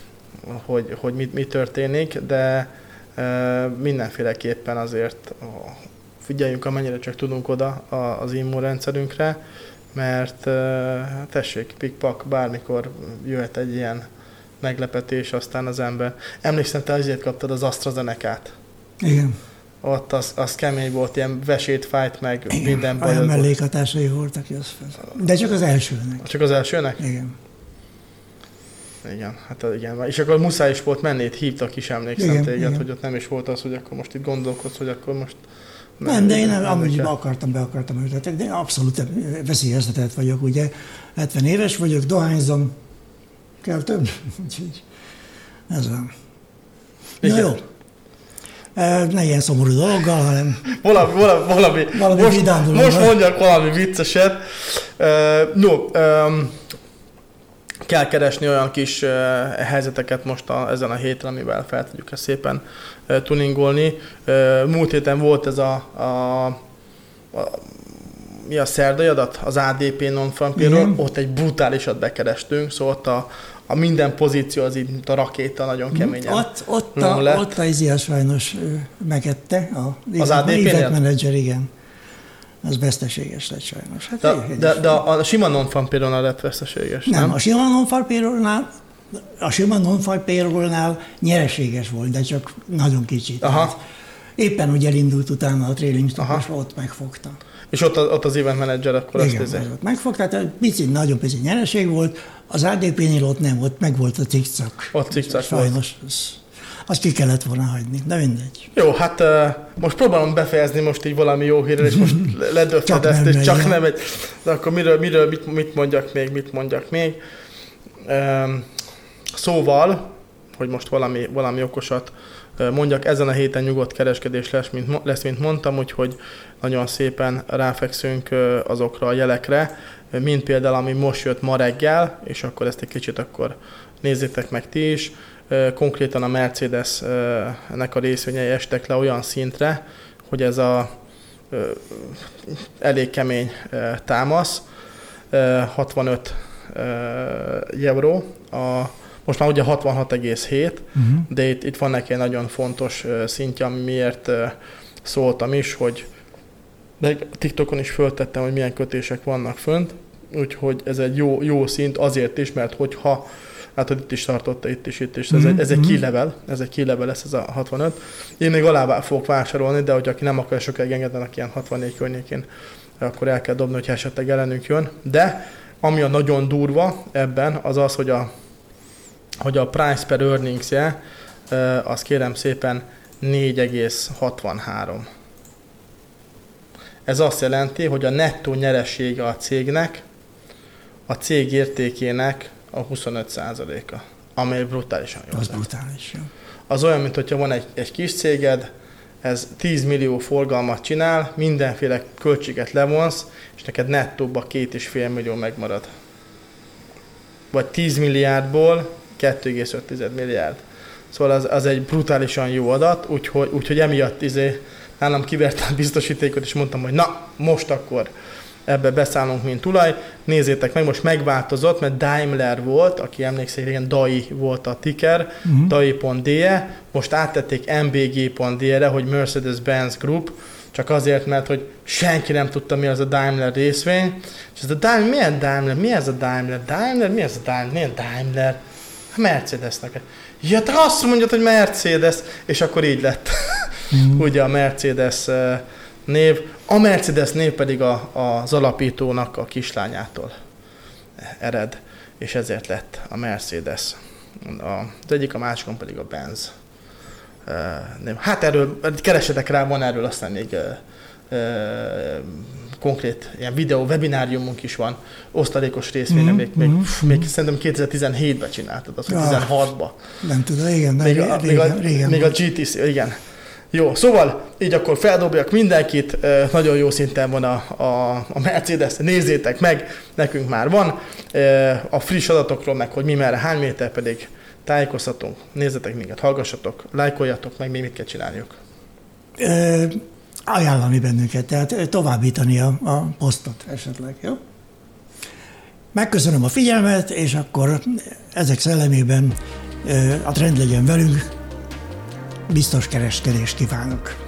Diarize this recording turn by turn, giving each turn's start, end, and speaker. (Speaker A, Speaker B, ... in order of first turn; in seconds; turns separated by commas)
Speaker A: 0.5-9.4, Speaker A: 9.9-14.1, Speaker A: 14.6-18.5, Speaker B: 19.0-19.4, Speaker A: 19.8-23.5, Speaker B: 22.5-26.3, Speaker A: 26.2-27.0, Speaker B: 27.0-27.3, Speaker A: 29.0-35.4, Speaker B: 32.2-32.8, Speaker A: 36.0-37.1, Speaker B: 36.0-42.7, Speaker B: 43.6-44.8, Speaker B: 45.7-46.1, Speaker A: 47.2-47.6, Speaker B: 47.2-47.6, Speaker B: 48.7-50.6, Speaker A: 50.7-56.6, Speaker B: 51.9-53.1, Speaker A: 57.9-66.6, Speaker A: 67.3-77.6, Speaker B: 70.5-71.0, Speaker B: 75.9-81.7, Speaker A: 80.2-81.0, Speaker B: 82.6-85.0, Speaker A: 84.2-87.3, Speaker B: 87.1-93.8, Speaker A: 93.4-93.7, Speaker B: 94.4-97.4, Speaker A: 96.2-96.4, Speaker A: 97.7-99.7, Speaker B: 99.2-108.7, Speaker A: 104.9-105.8, Speaker A: 108.7-117.2, Speaker B: 112.8-113.8, Speaker A: 118.0-118.7, Speaker A: 119.3-120.0, Speaker A: 120.5-140.9, Speaker A: 141.5-144.7, Speaker A: 145.3-156.1, Speaker B: 150.9-151.2, Speaker A: 157.0-163.2, Speaker A: 163.8-172.4, Speaker B: 165.3-165.9, Speaker A: 173.0-178.3, Speaker A: 179.4-181.0, Speaker A: 181.5-185.0, Speaker A: 187.1-190.0, Speaker A: 191.1-195.6, Speaker B: 195.3-196.3, Speaker A: 196.7-198.7, Speaker A: 199.2-205.9, Speaker A: 207.5-210.6, Speaker A: 211.1-218.1, Speaker A: 218.7-238.6, Speaker B: 225.4-225.7, Speaker A: 239.1-250.3, Speaker B: 243.9-244.2, Speaker A: 251.2-256.5, Speaker A: 257.4-269.9, Speaker B: 266.1-267.3, Speaker B: 269.1-269.5, Speaker B: 270.2-272.3, Speaker A: 271.0-273.2, Speaker A: 273.7-288.5, Speaker B: 289.4-294.4, Speaker B: 295.9-301.3, Speaker B: 302.5-304.1